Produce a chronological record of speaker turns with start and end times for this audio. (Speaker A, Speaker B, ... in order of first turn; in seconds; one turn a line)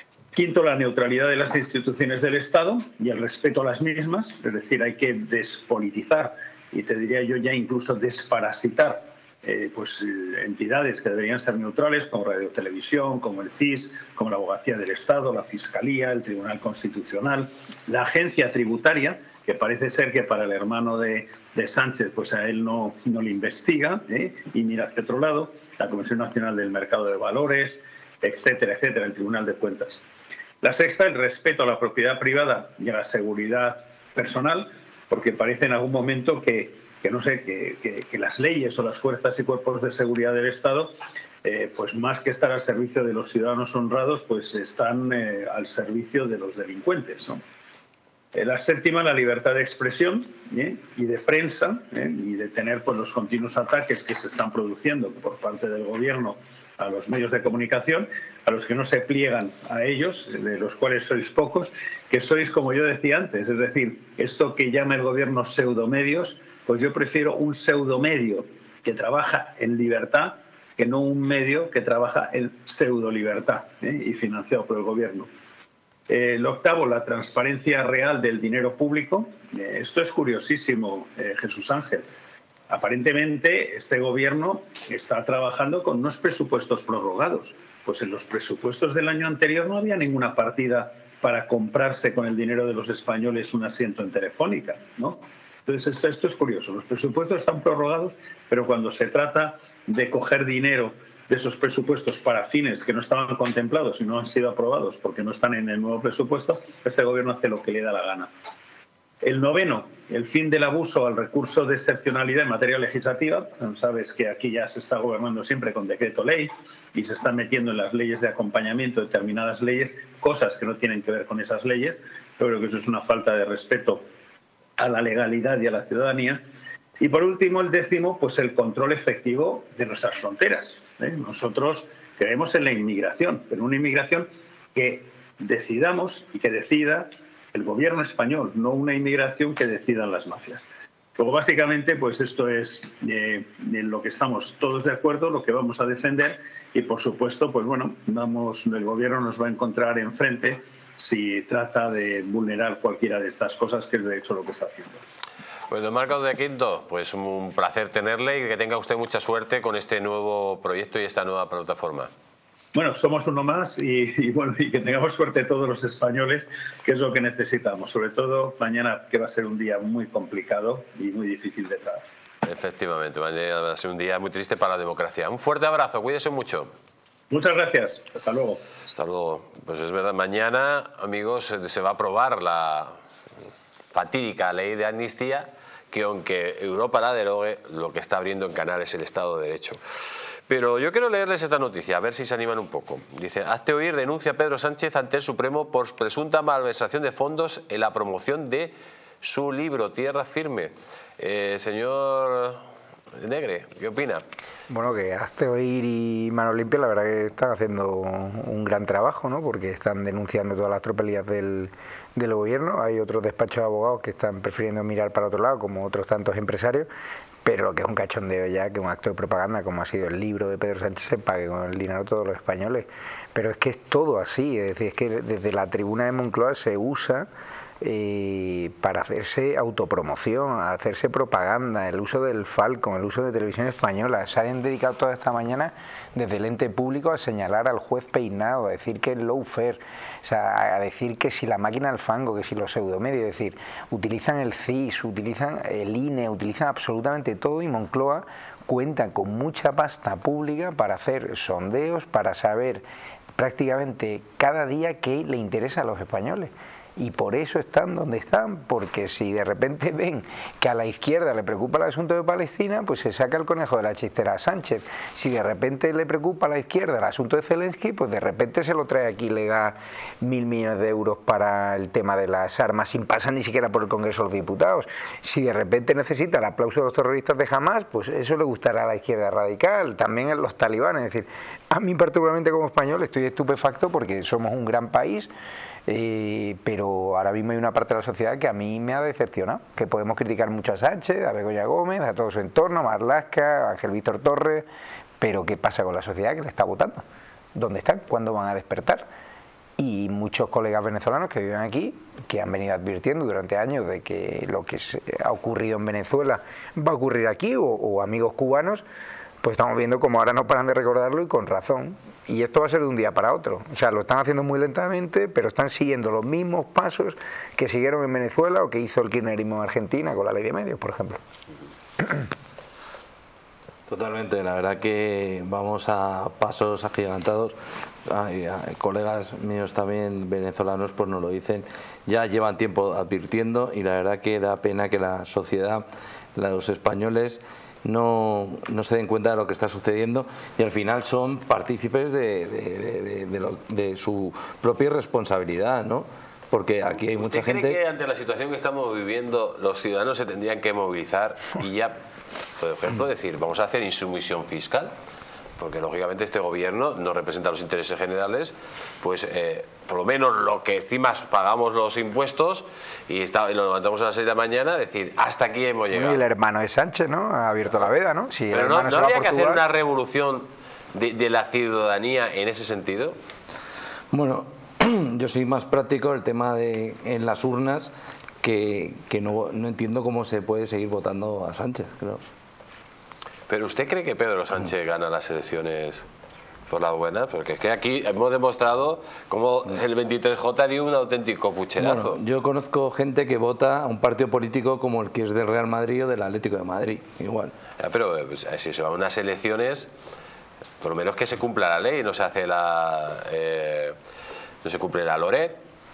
Speaker A: 0.3-30.0
Speaker A: 30.6-40.9
Speaker A: 41.4-47.4
Speaker A: 48.3-75.3
Speaker A: 76.1-82.1
Speaker A: 82.7-108.3
Speaker A: 109.2-124.0
Speaker A: 124.8-126.5
Speaker A: 127.0-140.6
Speaker A: 141.2-155.0
Speaker B: 155.7-162.1
Speaker A: 162.7-172.0
Speaker B: 172.4-176.7
Speaker A: 177.3-178.6
Speaker B: 178.9-183.0
Speaker B: 183.9-189.8
Speaker B: 190.5-202.6
Speaker B: 203.2-204.2
Speaker C: 204.7-216.9
Speaker C: 217.4-227.3
Speaker C: 227.8-252.8
Speaker C: 253.4-285.3
Speaker C: 285.9-294.7
Speaker C: 295.2-297.0
Speaker C: 297.6-299.1
Speaker C: 299.8-308.8
Speaker C: 309.4-321.2
Speaker D: 323.9-335.8
Speaker D: 336.3-347.8
Speaker B: 347.1-351.9
Speaker B: 352.6-354.9
Speaker B: 355.6-366.2
Speaker C: 365.9-369.6
Speaker B: 368.5-373.2
Speaker D: 374.1-377.9
Speaker D: 378.4-382.2
Speaker B: 383.5-386.1
Speaker B: 386.7-392.2
Speaker D: 391.8-397.5
Speaker B: 397.8-399.9
Speaker B: 400.8-403.9
Speaker B: 404.6-405.6